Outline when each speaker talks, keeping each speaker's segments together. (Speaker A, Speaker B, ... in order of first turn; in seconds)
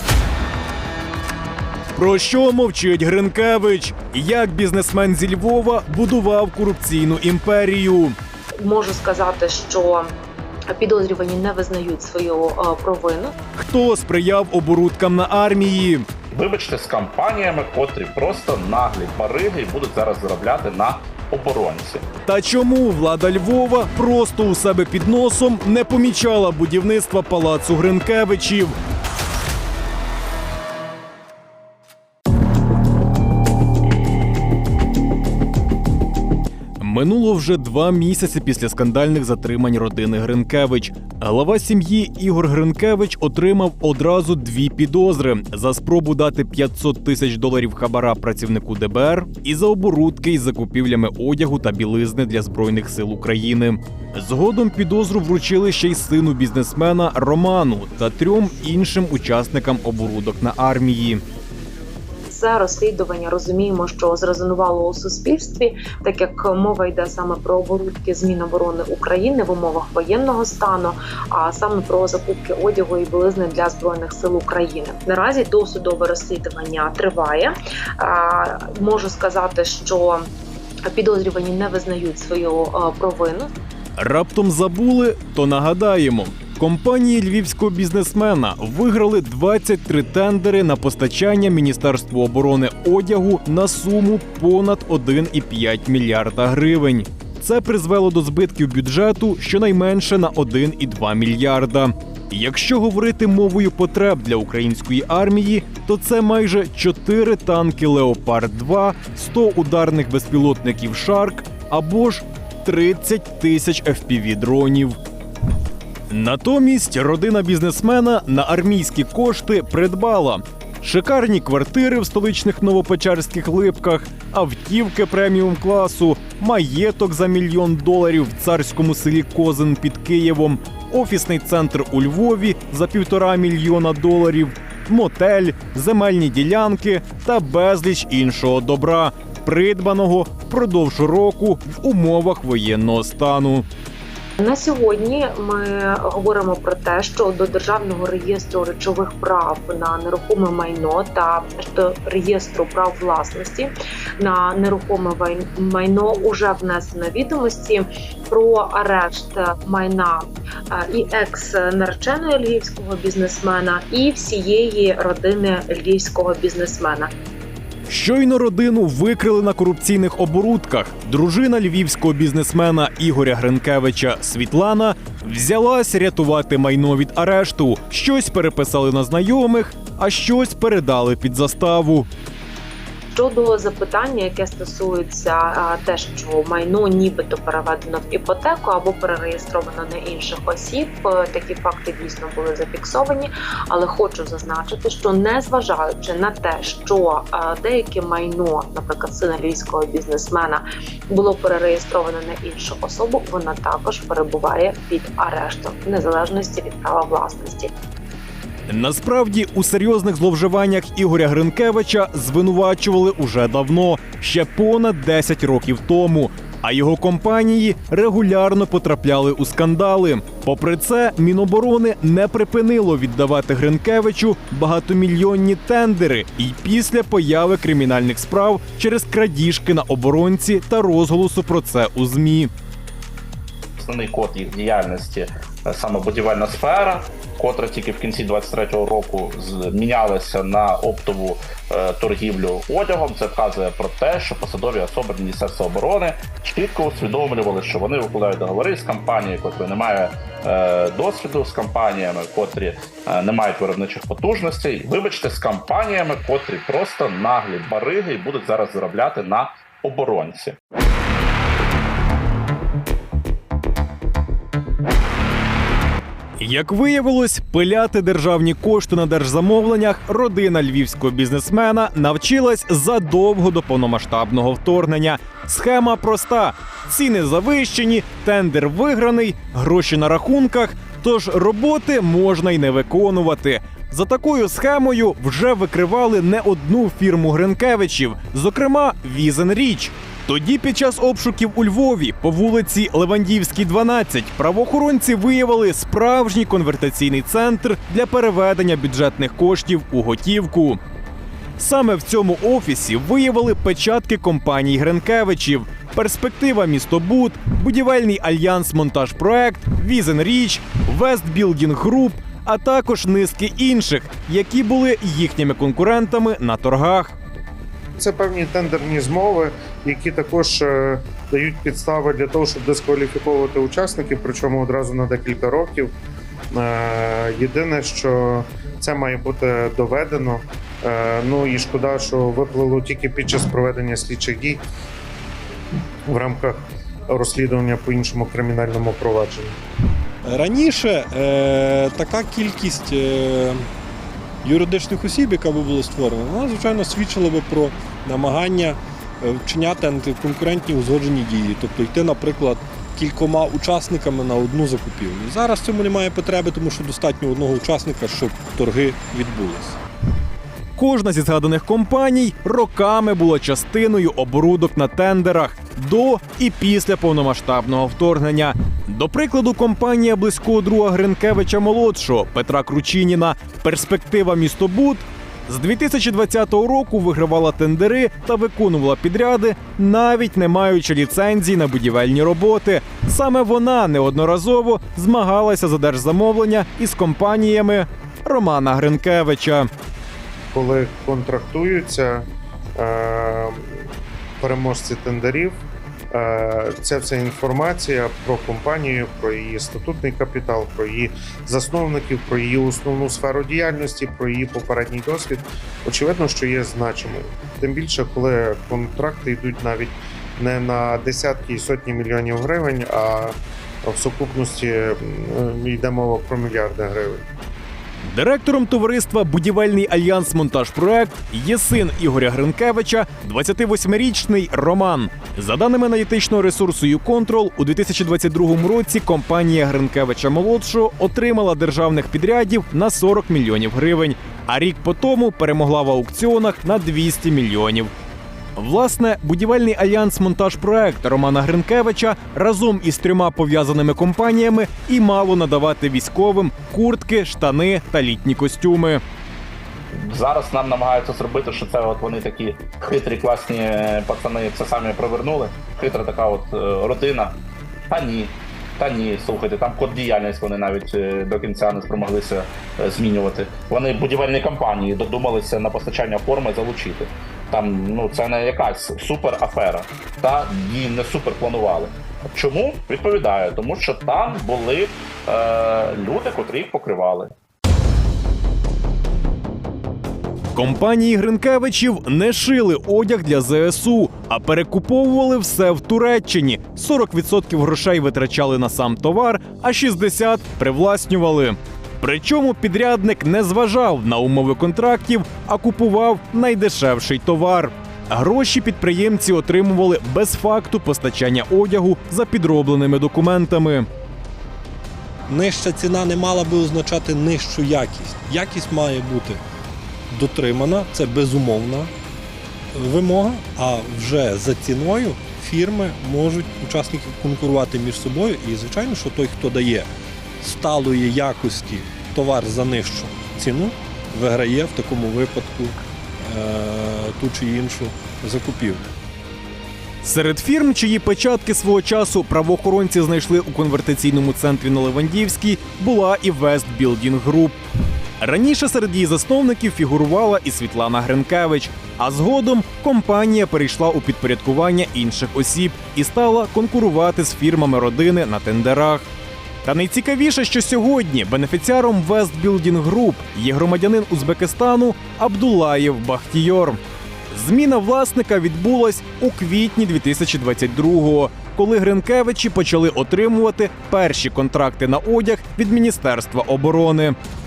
Speaker A: 1.9-8.2, 13.6-16.1, 22.2-28.8, 36.8-61.2, 84.0-115.0, 116.1-143.7, 167.9-182.1, 208.7-232.5, 266.4-300.8, 301.6-317.1, 360.8-389.7, 418.0-437.9, 438.6-449.0, 480.5-503.9, 530.0-537.6, 538.2-549.1, 549.6-567.1
Speaker B: 8.6-10.1, 10.7-13.3, 62.3-80.3, 80.9-83.5, 144.4-167.1, 183.1-207.7
Speaker C: 16.3-22.1, 233.8-260.6, 449.9-457.4, 457.9-477.3
Speaker D: 318.0-325.9, 326.5-334.6, 336.1-339.5, 390.5-392.2, 392.8-393.8, 394.4-395.6, 396.1-417.2
Speaker E: 340.2-343.6, 344.4-359.8, 505.3-509.4, 510.1-511.9, 512.7-528.9